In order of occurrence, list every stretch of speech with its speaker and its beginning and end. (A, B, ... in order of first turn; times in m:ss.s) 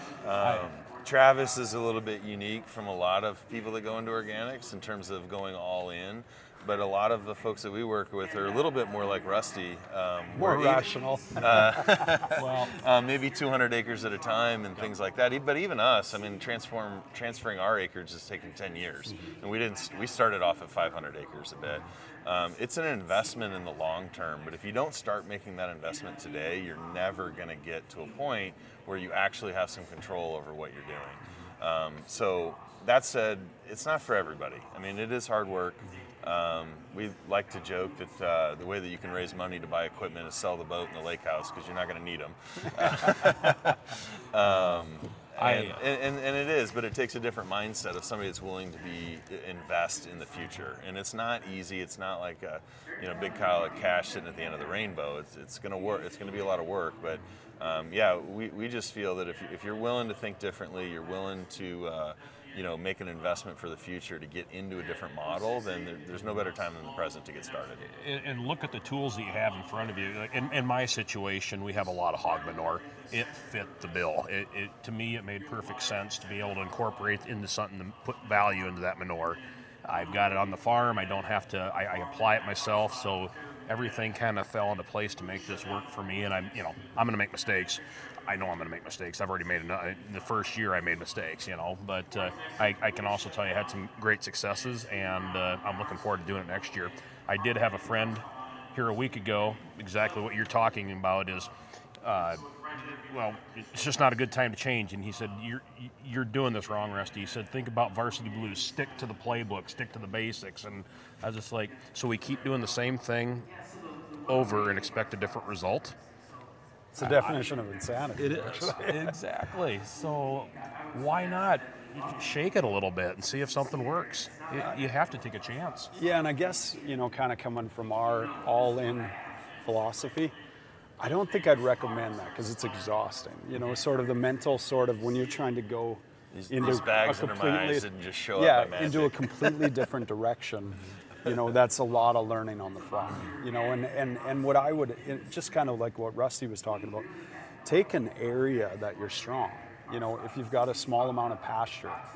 0:00.2-1:07.9 A
0:10.4-0:12.1 B
0:12.3-0:12.8 C
0:45.4-0:45.8 C
1:07.8-1:53.5 C
1:54.3-1:56.0 C
1:56.9-1:59.1 B
1:57.0-1:57.4 C
1:58.2-2:05.9 C
2:05.9-2:10.4 B
2:11.0-2:27.1 B
2:16.3-2:19.9 A
2:27.6-2:32.0 B